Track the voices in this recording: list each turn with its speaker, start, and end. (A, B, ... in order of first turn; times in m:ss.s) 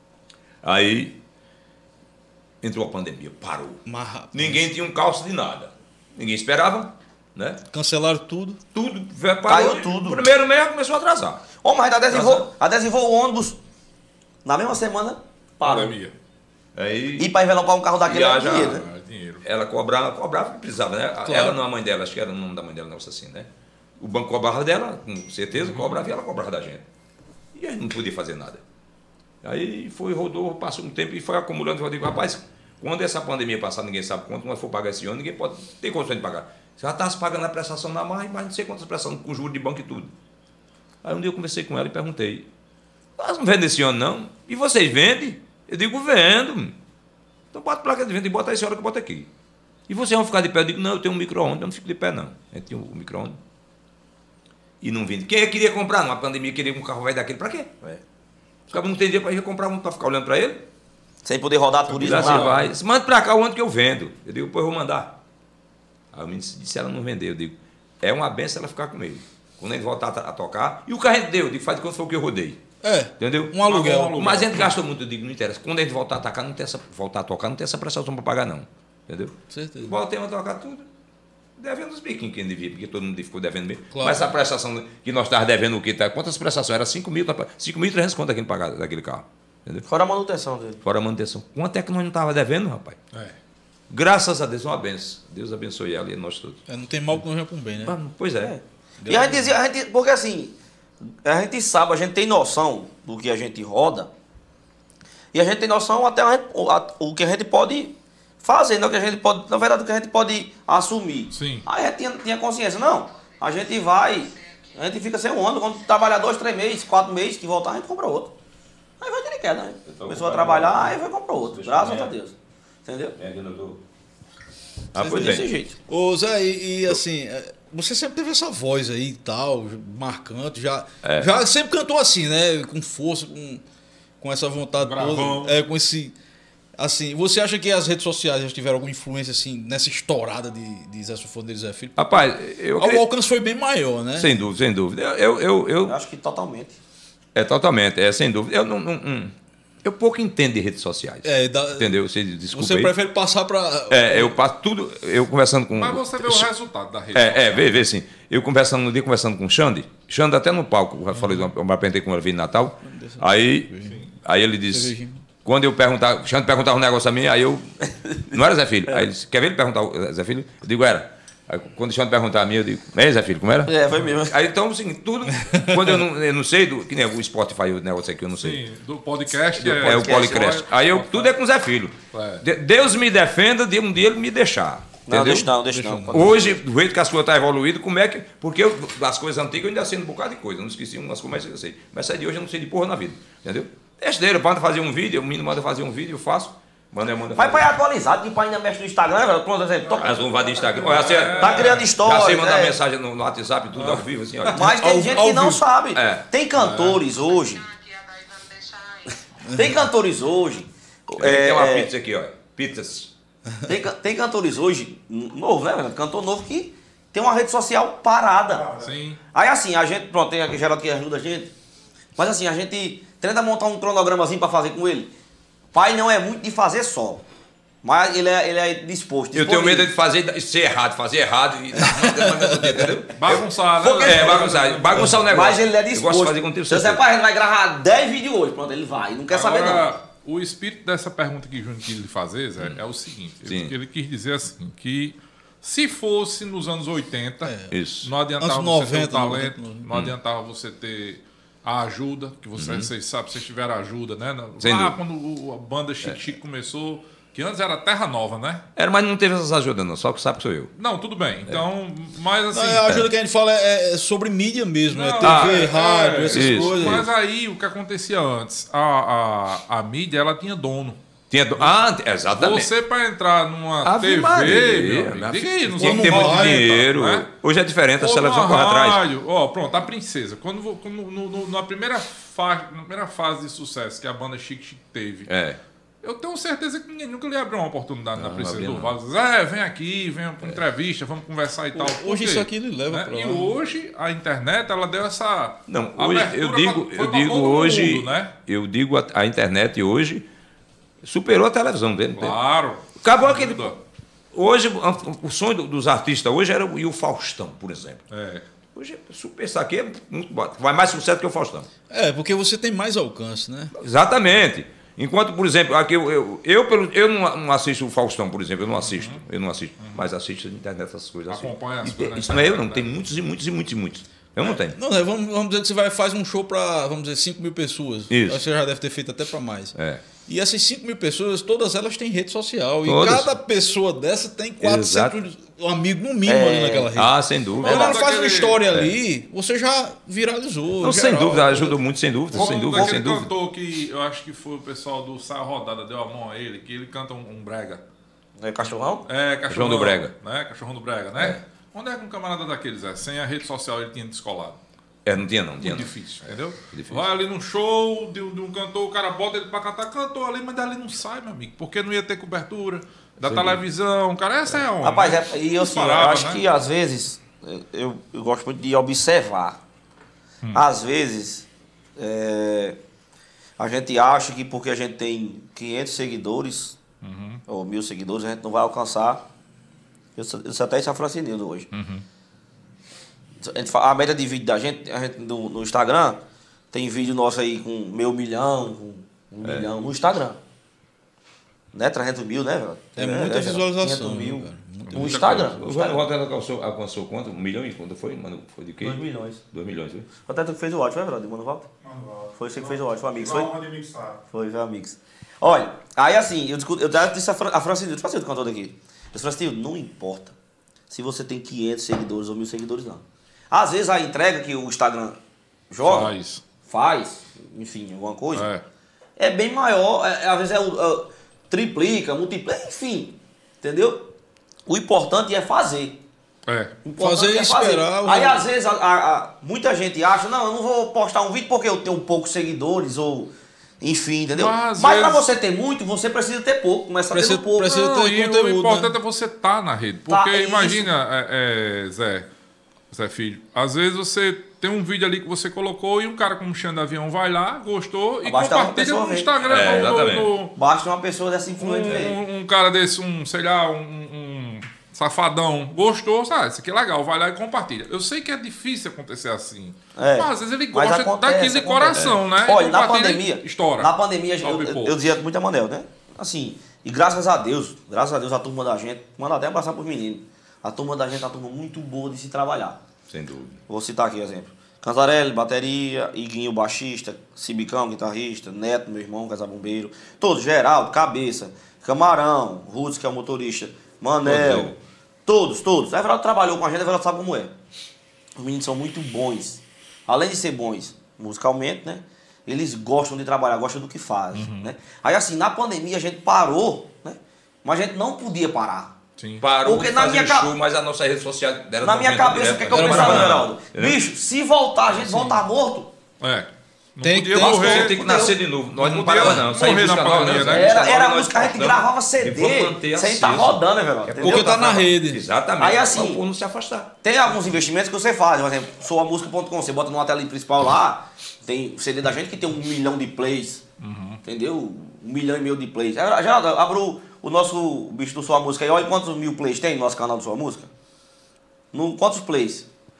0:00.6-0:01.2 A
0:02.6-0:07.6 A
0:03.9-0:04.7 B
0:07.7-0:08.6 B
0:08.7-0:11.5 A
0:09.5-0:10.3 C
0:11.6-0:13.6 C
0:12.1-0:12.5 A
0:14.4-0:16.0 C
0:15.6-0:16.1 D
0:16.8-0:17.3 A
0:17.2-0:18.8 C
0:18.0-0:18.8 A
0:18.5-0:19.4 D
0:19.4-0:26.8 A
0:21.3-0:21.6 B
0:25.6-0:26.0 D
0:27.5-0:28.6 A
0:29.4-0:40.1 A
0:41.0-0:42.5 A
0:43.2-0:46.8 A
0:47.5-0:49.3 A
0:49.9-0:53.4 A
0:54.8-0:58.0 A
0:58.7-1:00.6 A
1:01.2-1:02.6 C
1:02.0-1:02.6 D
1:02.0-1:05.2 A
1:06.1-1:12.6 A
1:12.8-1:14.3 B
1:13.2-1:20.9 A
1:13.6-1:14.7 D
1:19.5-1:19.9 B
1:21.6-1:29.8 A
1:23.9-1:24.3 B
1:29.9-1:30.8 C
1:30.8-1:33.0 A
1:33.9-1:36.6 A
1:36.7-1:38.0 B
1:37.8-1:38.6 A
1:38.4-1:40.5 C
1:39.0-1:39.5 B
1:41.2-1:44.1 C
1:45.3-1:58.3 C
1:51.3-1:51.6 D
1:59.0-2:02.3 C
1:59.9-2:02.2 A
2:02.9-2:03.2 C
2:03.2-2:03.8 A
2:04.9-2:05.5 A
2:05.0-2:13.6 B
2:05.0-2:05.8 C
2:11.0-2:11.3 A
2:14.2-2:16.2 B
2:14.8-2:15.6 D
2:16.8-2:24.3 B
2:22.0-2:23.0 A
2:24.2-2:26.0 A
2:25.9-2:26.8 C
2:27.4-2:29.3 A
2:29.8-2:32.9 A
2:31.2-2:32.0 B
2:32.5-2:34.3 B
2:33.9-2:36.5 A
2:35.8-2:37.8 D
2:37.1-2:43.7 A
2:41.2-2:41.5 D
2:42.9-2:44.0 B
2:43.8-2:44.1 D
2:44.2-2:47.8 A
2:44.7-2:45.2 B
2:48.0-2:48.4 C
2:48.3-2:58.6 A
2:53.7-2:54.4 C
2:55.4-2:56.0 B
2:58.4-3:01.4 D
2:59.6-3:05.5 A
2:59.8-3:00.6 C
3:02.1-3:02.4 D
3:05.1-3:06.6 C
3:05.7-3:06.3 B
3:06.1-3:17.7 A
3:17.4-3:22.8 C
3:19.9-3:21.0 E
3:20.0-3:25.2 A
3:20.8-3:21.9 D
3:23.8-3:24.1 D
3:24.5-3:27.7 C
3:24.5-3:25.6 B
3:26.0-3:26.3 A
3:26.6-3:27.0 D
3:29.5-3:31.9 C
3:31.2-3:33.1 A
3:33.7-3:38.7 C
3:38.5-3:38.9 E
3:38.8-3:39.2 D
3:39.3-3:41.5 C
3:42.2-3:45.1 C
3:45.7-3:47.2 C
3:47.8-3:49.9 C
3:49.3-3:57.0 A
3:53.2-3:55.2 D
3:53.9-3:59.9 C
3:59.3-4:18.6 D
4:03.4-4:03.8 A
4:07.4-4:07.7 B
4:07.7-4:08.1 A
4:08.4-4:09.8 B
4:12.6-4:12.9 A
4:14.6-4:15.0 A
4:18.8-4:20.7 A
4:20.8-4:23.0 D
4:22.5-4:27.1 B
4:24.9-4:31.0 D
4:25.2-4:25.7 A
4:26.3-4:27.1 A
4:31.3-4:32.7 A
4:32.3-4:37.3 D
4:33.8-4:39.0 A
4:35.8-4:36.7 B
4:38.0-4:45.3 D
4:45.3-4:45.6 A
4:46.0-4:58.3 D
4:48.2-4:48.9 A
4:51.8-4:53.5 B
4:55.7-5:00.3 A
5:01.0-5:02.4 A
5:02.2-5:03.8 D
5:03.0-5:03.8 A
5:04.3-5:08.0 A
5:08.1-5:08.4 D
5:08.8-5:11.7 A
5:11.9-5:13.7 B
5:13.8-5:24.8 A
5:18.8-5:19.2 D
5:19.8-5:20.1 D
5:21.3-5:22.9 D
5:24.4-5:29.8 B
5:28.1-5:28.5 A
5:29.8-5:30.0 A
5:30.3-5:41.8 B
5:32.8-5:33.3 A
5:34.6-5:35.2 A
5:36.2-5:36.9 C
5:37.0-5:38.0 A
5:37.6-5:38.6 D
5:38.7-5:39.0 A
5:40.8-5:43.3 A
5:42.3-5:47.8 D
5:48.4-5:49.1 C
5:49.1-5:54.6 D
5:49.5-5:50.1 A
5:55.0-5:55.9 A
5:55.6-6:06.4 D
5:56.7-5:57.1 A
6:03.2-6:03.6 A
6:04.8-6:09.6 C
6:10.5-6:12.8 C
6:13.6-6:16.8 C
6:17.0-6:17.4 D
6:17.5-6:19.2 C
6:20.2-6:21.7 C
6:21.7-6:22.0 D
6:23.4-6:26.2 C
6:26.7-6:30.4 C
6:29.4-6:29.7 A
6:31.7-6:36.0 C
6:33.0-6:35.2 B
6:34.9-6:35.4 D
6:34.9-6:40.1 A
6:38.8-6:39.4 C
6:40.2-6:41.7 C
6:41.8-6:44.2 E
6:42.4-6:43.6 C
6:44.3-6:50.3 C
6:50.9-6:55.2 C
6:55.7-6:56.1 C
6:55.8-6:56.4 D
6:56.7-6:58.5 C
6:58.3-6:58.6 D
6:59.2-7:04.1 C
7:04.7-7:06.0 C
7:06.5-7:06.8 D
7:06.8-7:17.7 C
7:07.0-7:08.4 B
7:14.3-7:15.2 D
7:17.1-7:18.9 B
7:17.6-7:22.3 D
7:20.1-7:20.9 C
7:22.9-7:30.5 D
7:28.2-7:29.9 C
7:29.4-7:30.3 A
7:30.6-7:32.2 C
7:31.6-7:45.0 D
7:40.0-7:52.8 C
7:42.0-7:42.2 A
7:53.1-7:53.6 A
7:53.7-8:07.5 C
8:04.2-8:04.7 A
8:08.4-8:18.9 C
8:14.3-8:14.7 D
8:19.2-8:19.4 D
8:19.4-8:24.0 A
8:19.6-8:20.6 C
8:21.8-8:25.9 C
8:22.7-8:23.4 D
8:26.2-8:28.0 D
8:27.0-8:28.2 B
8:27.4-8:36.9 A
8:27.7-8:28.4 C
8:28.8-8:30.7 D
8:29.2-8:29.4 B
8:30.4-8:34.6 C
8:34.2-8:35.2 B
8:35.6-8:36.2 C
8:37.0-8:43.6 C
8:43.8-8:44.2 D
8:44.2-8:50.7 C
8:51.7-8:52.7 C